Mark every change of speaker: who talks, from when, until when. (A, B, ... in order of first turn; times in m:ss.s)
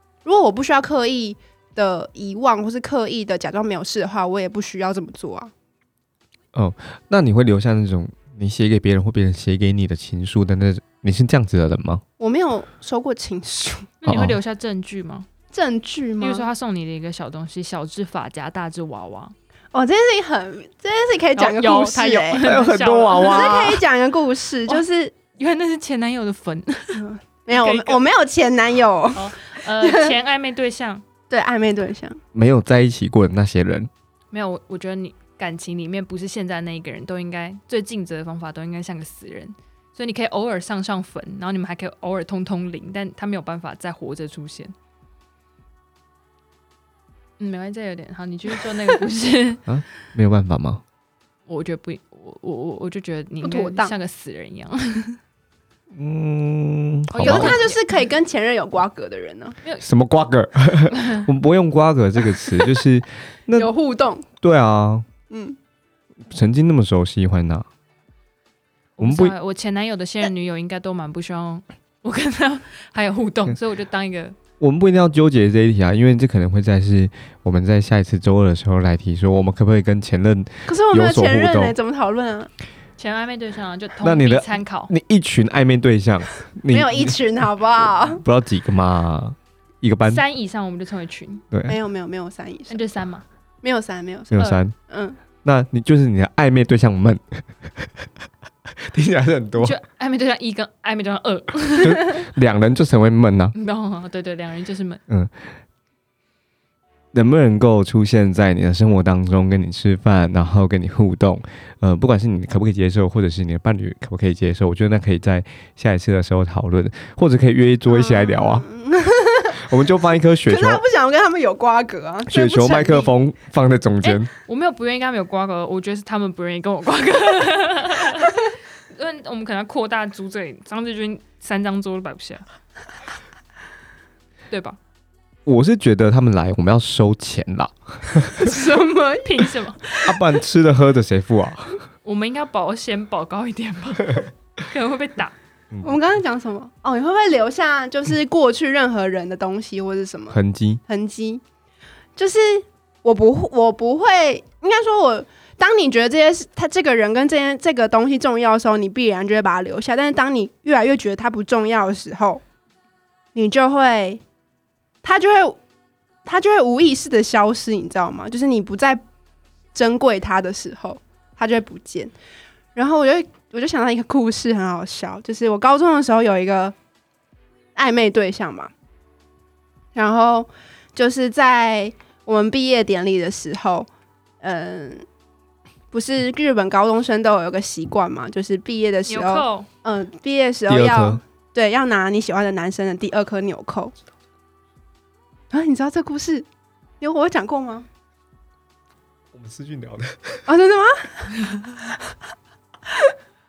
0:00.2-0:05.5 A
0:06.5-0:12.0 B
0:12.2-0:13.9 A
0:14.0-0:15.3 C
0:14.1-0:14.4 B
0:15.5-0:16.5 A
0:16.2-0:19.4 C
0:19.7-0:22.4 A
0:21.4-0:23.7 C
0:22.4-0:23.8 B
0:23.2-0:25.2 A
0:25.4-0:28.0 C
0:26.9-0:30.2 A
0:29.2-0:31.0 C
0:31.3-0:32.2 A
0:32.3-0:33.9 B
0:34.3-0:44.7 C
0:47.4-0:49.6 C
0:49.7-0:50.8 B
0:51.5-0:55.2 C
0:53.4-0:53.9 A
0:55.9-0:57.6 B
0:57.1-0:57.8 C
0:57.2-0:59.6 A
0:59.8-1:03.7 B
1:00.9-1:01.3 C
1:03.5-1:04.3 A
1:04.4-1:05.1 B
1:05.3-1:05.6 A
1:06.3-1:07.7 B
1:09.0-1:14.4 C
1:09.0-1:09.4 B
1:14.6-1:21.8 B
1:20.7-1:22.5 A
1:23.0-1:24.9 C
1:24.0-1:27.2 B
1:26.7-1:28.2 A
1:28.1-1:30.2 B
1:30.0-1:31.4 C
1:31.5-1:31.8 B
1:31.7-1:32.8 A
1:32.7-1:33.2 C
1:33.6-1:35.2 A
1:34.3-1:34.7 B
1:35.4-1:38.1 B
1:38.7-1:39.8 B
1:39.6-1:42.2 C
1:41.8-1:43.6 B
1:43.6-1:45.0 C
1:47.1-1:58.6 B
1:57.9-1:59.6 A
1:59.6-2:00.8 B
2:00.5-2:03.1 A
2:02.3-2:04.3 B
2:04.0-2:12.4 C
2:14.5-2:14.8 C
2:15.5-2:18.5 B
2:18.3-2:20.1 A
2:19.2-2:19.9 C
2:20.0-2:21.8 B
2:22.0-2:25.4 C
2:25.7-2:26.0 B
2:25.8-2:31.4 A
2:30.3-2:30.8 B
2:32.2-2:42.4 A
2:43.4-2:44.2 A
2:45.0-2:45.6 A
2:46.2-2:49.0 A
2:49.8-2:52.1 A
2:52.8-2:56.8 A
2:57.8-2:58.7 A
3:00.0-3:03.9 A
3:04.4-3:05.1 A
3:05.9-3:13.9 A
3:09.1-3:09.7 C
3:10.7-3:11.2 B
3:15.5-3:16.5 A
3:17.0-3:17.9 A
3:19.3-3:20.4 B
3:20.5-3:21.6 A